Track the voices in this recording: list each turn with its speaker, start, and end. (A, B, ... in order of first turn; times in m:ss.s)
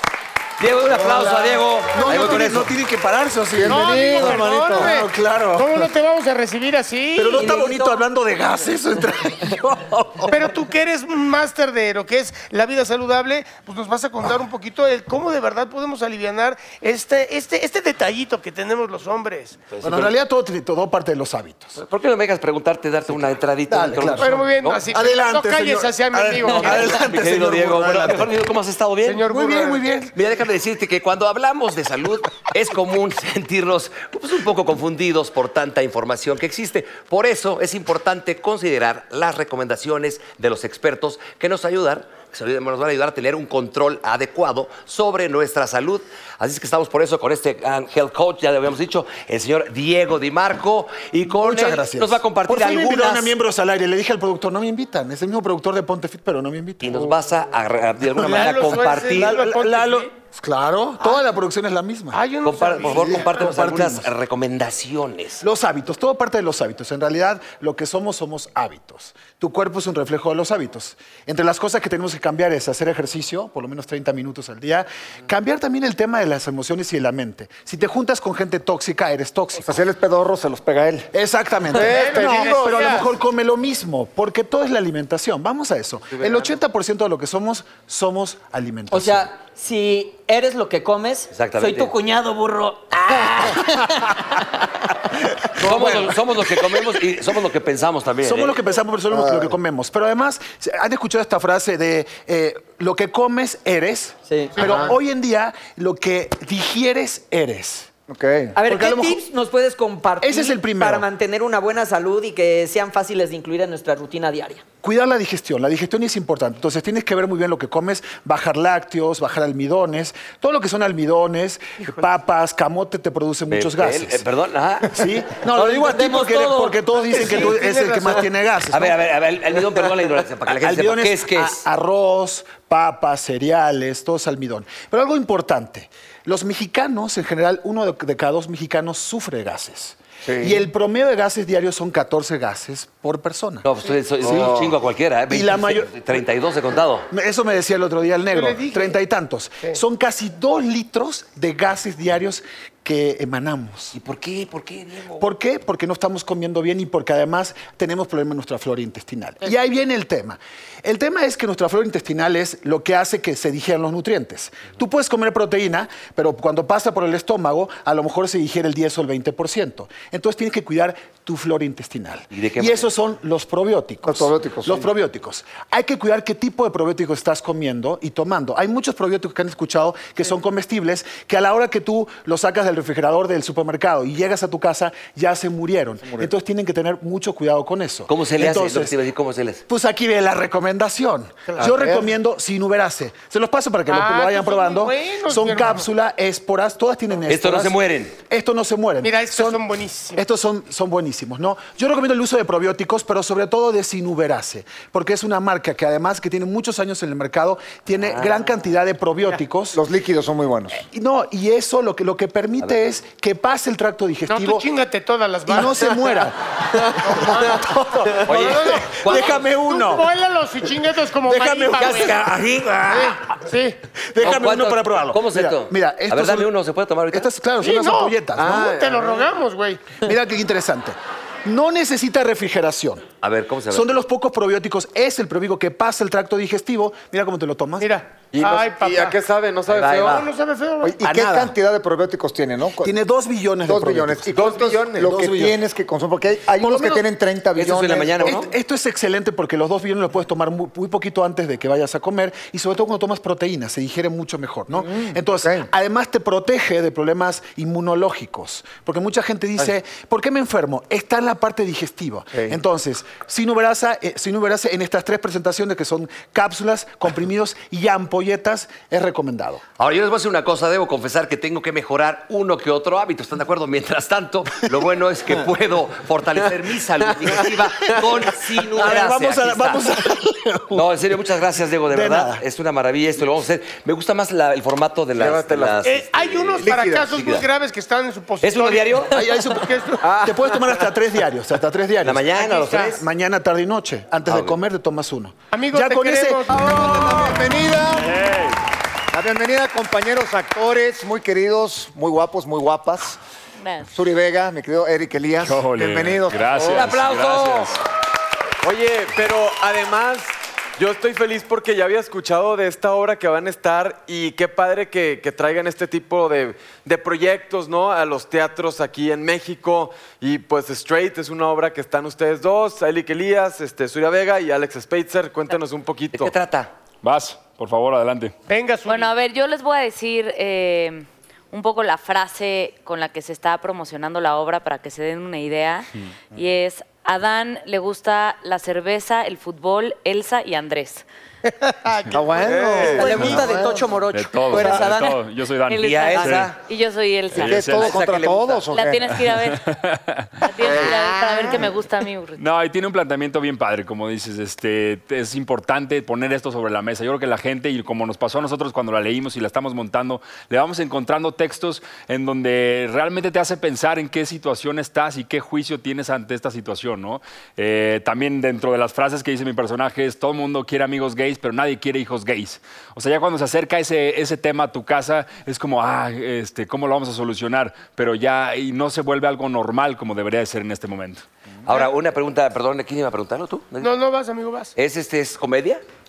0:00.6-0:02.7 A
0:00.9-0:05.9 B
0:03.5-0:05.0 C
0:03.7-0:07.6 D
0:07.1-0:10.5 B
0:07.4-0:08.0 E
0:10.3-0:19.6 D
0:19.7-0:20.1 A
0:19.8-0:21.8 B
0:21.8-0:24.8 A
0:23.7-0:28.2 B
0:24.2-0:27.1 D
0:26.5-0:29.2 A
0:29.0-0:29.9 D
0:29.2-0:30.1 B
0:30.1-0:53.3 A
0:51.3-0:57.1 B
0:56.8-0:59.4 A
0:58.2-1:00.1 D
0:58.2-1:02.2 B
1:02.1-1:03.4 D
1:02.4-1:05.4 A
1:02.8-1:04.1 B
1:05.4-1:19.8 B
1:19.6-1:21.1 C
1:21.1-1:29.3 B
1:21.7-1:23.0 F
1:21.8-1:23.1 D
1:26.1-1:26.5 F
1:28.9-1:34.1 E
1:31.3-1:31.9 A
1:35.6-1:38.6 A
1:35.6-1:36.1 B
1:38.2-1:47.9 B
1:39.1-1:39.6 C
1:44.3-1:44.5 E
1:48.1-1:48.6 C
1:48.6-1:54.6 E
1:48.6-1:49.2 B
1:50.2-1:51.0 B
1:54.8-2:04.2 B
2:03.5-2:05.0 A
2:04.9-2:09.0 B
2:05.5-2:06.8 E
2:07.1-2:08.3 D
2:08.7-2:11.6 A
2:10.5-2:23.6 B
2:20.2-2:20.6 C
2:23.6-2:27.1 A
2:24.2-2:24.7 B
2:25.3-2:25.9 B
2:27.1-2:34.0 B
2:28.3-2:29.0 D
2:33.9-2:35.3 A
2:35.2-3:09.0 B
2:52.3-2:52.9 A
2:54.0-2:54.9 C
3:08.1-3:09.6 A
3:09.7-3:19.6 B
3:11.5-3:11.7 D
3:13.9-3:15.9 D
3:17.3-3:18.2 A
3:19.0-3:20.2 D
3:20.2-3:29.8 B
3:28.0-3:28.4 A
3:29.7-3:30.8 C
3:30.7-3:34.7 B
3:34.3-3:36.3 D
3:35.4-3:36.4 B
3:37.0-3:37.6 D
3:37.0-3:40.1 B
3:38.2-3:39.4 A
3:38.3-3:42.2 D
3:41.2-3:43.2 B
3:41.8-3:43.3 A
3:42.9-3:43.8 D
3:44.1-3:46.5 B
3:44.2-3:47.3 A
3:47.1-3:48.8 B
3:47.6-3:49.9 D
3:48.4-3:49.3 F
3:50.0-3:53.1 B
3:53.2-3:53.9 A
3:53.7-3:57.9 B
3:57.8-3:59.2 D
3:58.3-4:00.3 F
3:59.7-4:00.3 A
4:00.0-4:01.0 D
4:00.8-4:02.9 C
4:01.0-4:01.5 B
4:02.8-4:05.6 B
4:03.6-4:08.2 C
4:04.3-4:05.1 F
4:06.6-4:07.0 B
4:07.6-4:08.5 A
4:08.2-4:29.6 B
4:14.8-4:15.7 C
4:22.3-4:22.6 C
4:29.8-4:40.0 A
4:38.2-4:40.9 B
4:40.7-4:47.4 A
4:41.9-4:42.4 B
4:45.2-4:45.9 F
4:45.8-4:50.0 D
4:46.6-4:47.1 C
4:48.4-4:49.3 A
4:49.1-4:52.3 B
4:50.0-4:50.8 F
4:52.0-4:53.0 A
4:52.3-4:53.0 D
4:52.9-4:56.5 B
4:54.2-4:54.6 A
4:55.5-4:57.4 D
4:56.5-4:58.1 C
4:57.9-4:58.6 G
4:59.1-5:03.2 C
5:03.6-5:03.9 H
5:03.9-5:06.8 C
5:05.4-5:07.7 G
5:06.7-5:07.7 A
5:08.6-5:26.3 F
5:26.1-5:26.7 A
5:27.0-5:28.3 G
5:28.5-5:29.1 D
5:28.8-5:41.0 H
5:41.5-5:42.2 D
5:42.1-5:43.9 C
5:42.4-5:43.4 F
5:42.9-5:45.2 E
5:44.1-5:46.5 G
5:45.6-5:47.8 H
5:45.8-5:46.6 A
5:47.3-5:48.0 G
5:47.3-5:49.1 C
5:47.7-5:48.7 A
5:48.7-5:49.6 H
5:49.5-5:50.3 G
5:50.4-5:52.4 H
5:52.4-6:21.2 G
6:21.6-6:23.9 A
6:23.8-6:24.7 D
6:24.8-6:25.8 A